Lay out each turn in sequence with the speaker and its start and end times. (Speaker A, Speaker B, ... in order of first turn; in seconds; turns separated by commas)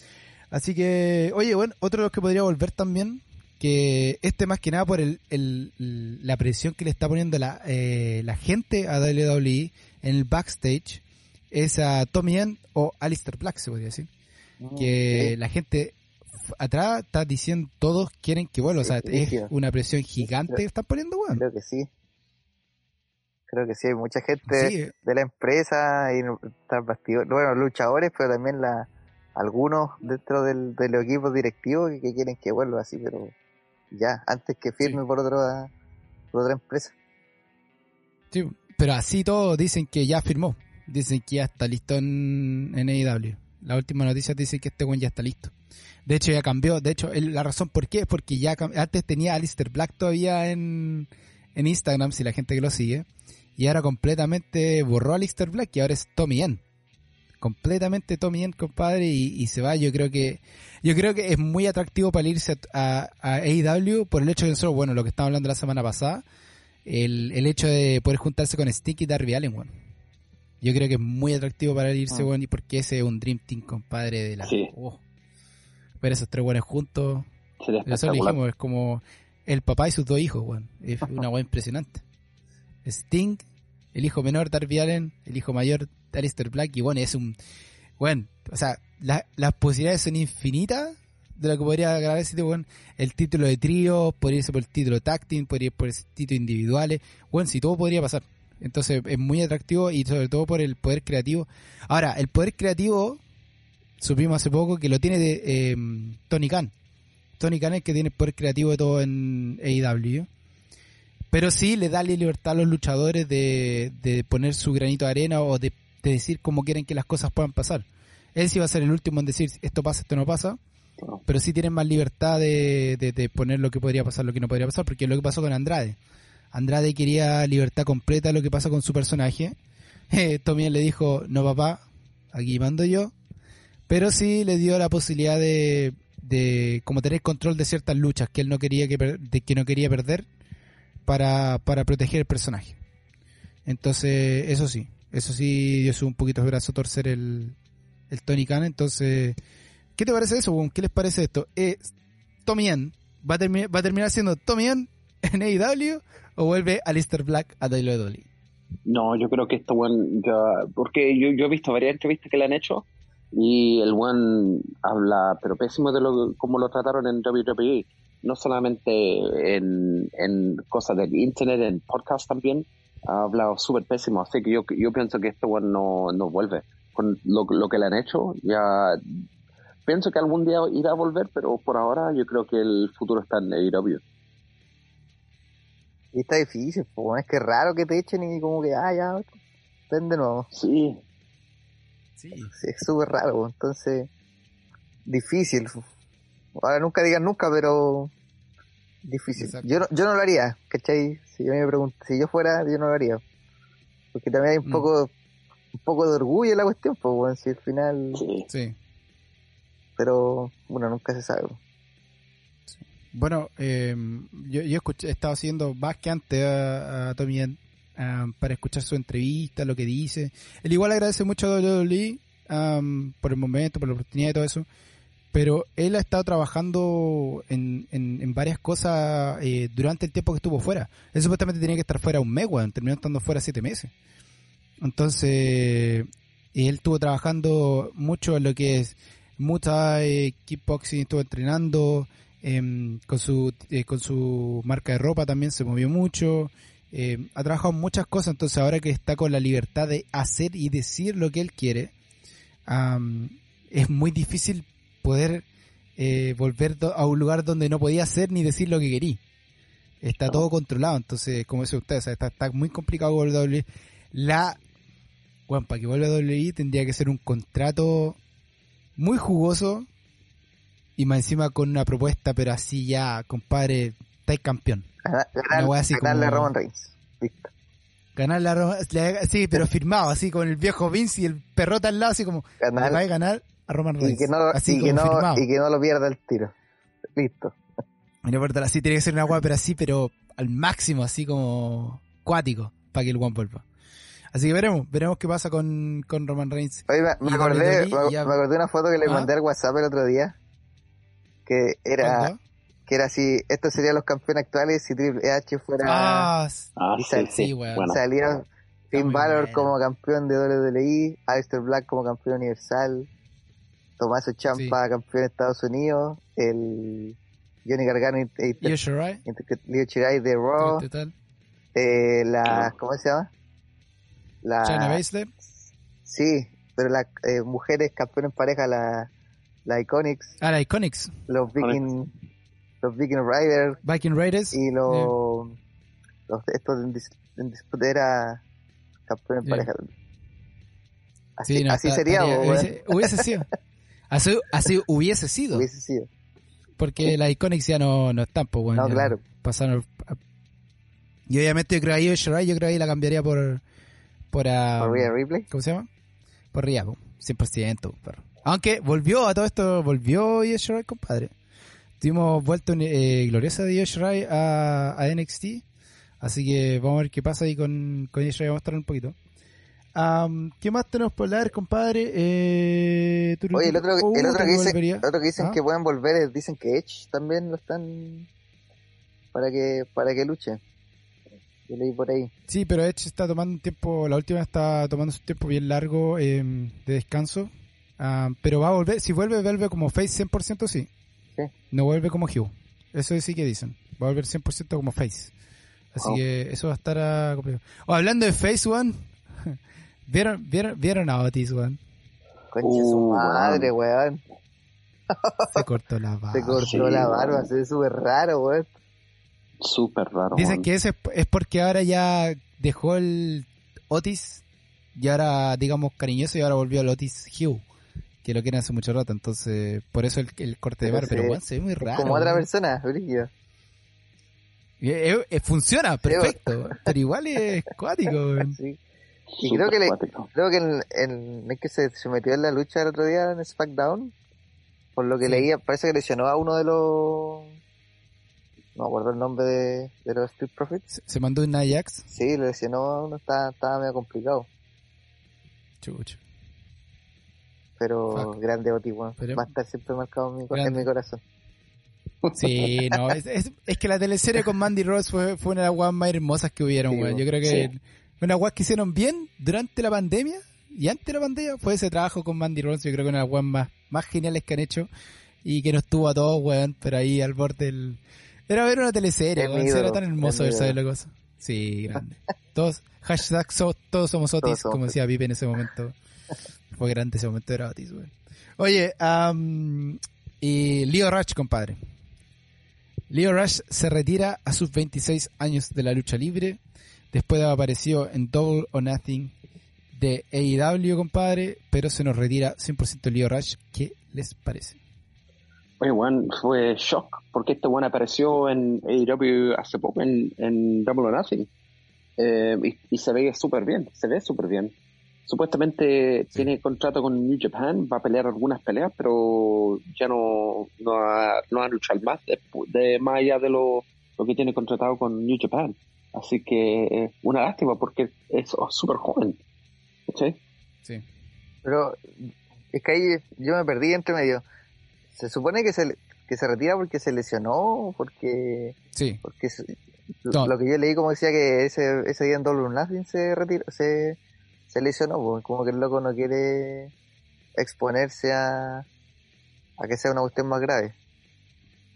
Speaker A: 0.5-14.1, Speaker B: 14.6-15.3, Speaker A: 14.7-21.4, Speaker B: 18.8-19.5, Speaker B: 21.3-21.9, Speaker B: 23.5-33.3, Speaker A: 24.5-24.9, Speaker B: 33.9-35.7, Speaker B: 36.3-36.9, Speaker A: 38.3-45.5, Speaker A: 46.0-53.0, Speaker A: 53.6-56.6, Speaker A: 57.4-66.2, Speaker A: 66.9-69.7, Speaker A: 70.6-75.0, Speaker C: 74.4-74.7, Speaker A: 76.0-77.3, Speaker C: 77.6-78.4, Speaker A: 77.8-82.0, Speaker A: 82.8-87.4, Speaker A: 88.0-103.2, Speaker A: 104.0-106.7, Speaker A: 107.4-110.3, Speaker A: 111.3-120.6, Speaker A: 121.2-126.0, Speaker A: 126.5-129.5, Speaker A: 130.1-133.1, Speaker A: 133.9-140.3, Speaker A: 141.1-142.8, Speaker A: 143.7-147.6, Speaker A: 148.1-149.4, Speaker A: 150.0-151.9, Speaker A: 152.4-158.3, Speaker C: 158.9-179.2, Speaker C: 179.9-184.0, Speaker B: 186.1-189.3, Speaker B: 189.9-190.5, Speaker C: 190.5-191.0, Speaker A: 192.2-192.5, Speaker B: 192.5-194.1, Speaker B: 195.1-195.8, Speaker B: 196.6-198.1, Speaker B: 199.1-203.2, Speaker A: 199.4-199.7, Speaker B: 204.1-205.1, Speaker B: 205.8-208.2, Speaker C: 208.1-208.5, Speaker A: 208.5-208.8, Speaker B: 210.0-211.6, Speaker A: 212.7-224.7, Speaker A: 225.3-233.9, Speaker A: 234.8-251.9, Speaker A: 252.7-255.4, Speaker A: 256.0-259.2, Speaker A: 260.0-264.6, Speaker A: 265.5-268.2, Speaker A: 269.0-269.9, Speaker A: 271.0-274.9, Speaker B: 275.0-277.5, Speaker A: 275.5-276.5, Speaker A: 278.1-285.4, Speaker B: 282.6-283.0, Speaker B: 284.0-286.5, Speaker B: 287.1-287.6, Speaker A: 288.2-293.6, Speaker A: 294.3-298.4, Speaker B: 296.9-300.4, Speaker A: 299.0-299.3, Speaker B: 301.4-302.3, Speaker A: 302.0-302.4, Speaker B: 302.9-306.3, Speaker A: 305.8-306.7, Speaker C: 306.8-308.0, Speaker B: 307.0-313.1, Speaker A: 307.3-307.9, Speaker A: 308.9-309.8, Speaker B: 314.0-320.9, Speaker A: 314.5-314.8, Speaker A: 318.6-319.2, Speaker A: 320.6-321.1, Speaker B: 321.7-323.3, Speaker B: 324.4-325.0, Speaker A: 324.6-325.3, Speaker B: 326.1-329.1, Speaker B: 329.6-330.4, Speaker A: 330.4-331.1, Speaker B: 331.3-332.1, Speaker B: 332.8-333.8, Speaker A: 333.8-335.1, Speaker B: 334.5-335.6, Speaker B: 336.3-338.4, Speaker B: 339.1-339.9, Speaker A: 339.4-339.7, Speaker B: 341.4-343.3, Speaker A: 341.4-343.5, Speaker A: 344.1-345.6, Speaker B: 345.5-346.1, Speaker A: 346.8-350.2, Speaker B: 348.7-349.2, Speaker A: 351.3-353.6, Speaker A: 354.3-355.9, Speaker B: 354.8-355.5, Speaker A: 356.5-361.3, Speaker A: 362.0-365.6, Speaker A: 366.2-369.1, Speaker A: 369.9-375.6, Speaker B: 373.5-378.3, Speaker B: 379.3-380.6, Speaker B: 381.7-382.3, Speaker A: 382.5-390.9, Speaker A: 391.7-395.3, Speaker A: 395.9-401.8, Speaker B: 402.5-404.2, Speaker C: 402.6-403.7, Speaker B: 405.1-405.6, Speaker A: 405.5-406.8, Speaker B: 406.3-408.7, Speaker C: 406.6-407.5, Speaker C: 409.6-410.6, Speaker A: 410.4-414.4, Speaker A: 414.9-417.6, Speaker A: 418.2-422.4, Speaker B: 420.8-423.3, Speaker A: 424.8-428.6, Speaker B: 426.0-426.9, Speaker B: 428.5-428.8, Speaker C: 429.4-430.3, Speaker B: 429.4-434.1, Speaker B: 434.9-437.6, Speaker A: 435.2-435.5, Speaker B: 438.8-440.9, Speaker A: 440.9-442.1, Speaker B: 442.1-444.5, Speaker A: 445.8-446.2, Speaker B: 447.8-451.2, Speaker A: 449.2-449.4, Speaker A: 450.5-450.9, Speaker A: 452.4-464.9, Speaker B: 456.9-457.2, Speaker A: 465.4-475.9, Speaker B: 469.4-470.8, Speaker B: 474.4-474.9, Speaker A: 476.7-481.8, Speaker A: 483.1-486.6, Speaker A: 487.1-489.3, Speaker A: 489.9-494.8, Speaker C: 495.8-501.5, Speaker C: 502.2-504.7, Speaker C: 505.3-519.4, Speaker C: 520.1-520.4, Speaker B: 521.6-524.4, Speaker B: 525.1-534.2, Speaker A: 528.9-529.2, Speaker B: 534.7-536.9, Speaker B: 537.6-538.9, Speaker B: 539.8-540.9